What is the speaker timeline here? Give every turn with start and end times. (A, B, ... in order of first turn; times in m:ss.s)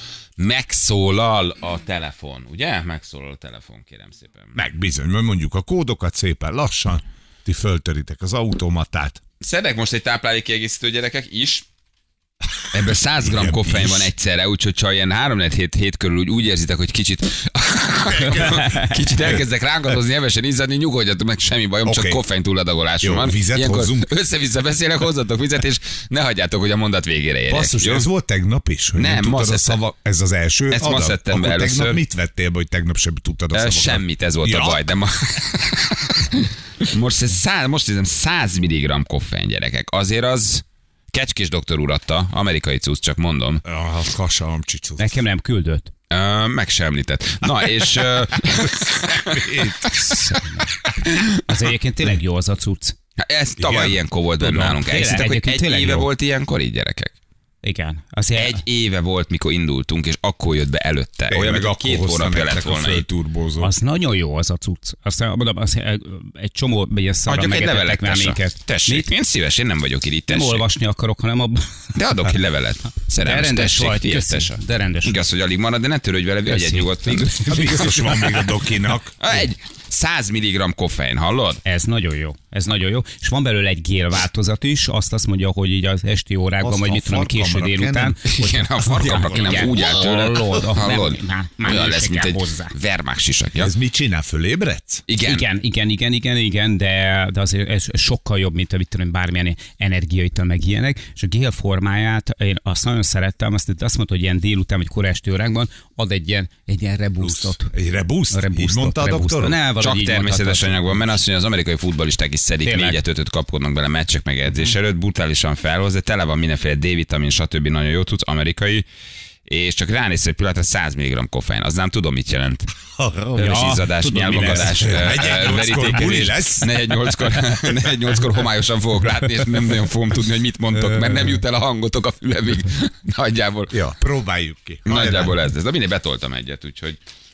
0:00.4-0:04.5 A
0:04.6-0:09.2 B
0:09.4-0:11.6 A
0:12.7-0:28.1 A
0:13.2-0:14.1 B
0:18.1-0:19.4 B
0:18.5-0:18.9 C
0:21.8-0:22.2 B
0:23.0-0:24.1 B
0:27.5-0:34.9 B
0:29.0-0:29.8 A
0:30.7-0:32.0 A
0:33.5-0:43.6 A
0:43.6-0:45.2 B
0:45.0-0:45.9 C
0:46.1-0:50.0 A
0:47.6-0:50.0 B
0:50.0-0:50.7 C
0:51.0-0:51.4 A
0:51.3-0:53.0 C
0:53.2-0:57.1 A
0:53.6-0:54.0 B
0:54.4-0:56.1 C
0:57.6-0:58.6 C
0:58.4-1:03.0 A
1:01.3-1:03.7 B
1:03.6-1:09.1 C
1:07.3-1:10.6 A
1:10.3-1:12.0 C
1:12.0-1:17.8 A
1:13.2-1:15.2 C
1:16.5-1:18.3 C
1:17.5-1:19.4 B
1:19.2-1:21.6 A
1:21.6-1:32.7 C
1:26.6-1:28.4 B
1:28.3-1:33.7 A
1:29.0-1:29.7 B
1:33.6-1:35.0 B
1:35.1-1:35.5 A
1:35.2-1:47.7 C
1:47.2-1:49.6 B
1:48.3-1:51.2 C
1:49.8-1:58.9 A
1:52.6-1:53.0 C
1:59.5-2:02.7 A
2:03.0-2:03.3 B
2:03.4-2:05.9 C
2:03.4-2:13.9 A
2:04.4-2:07.7 B
2:13.7-2:15.4 B
2:14.9-2:17.0 A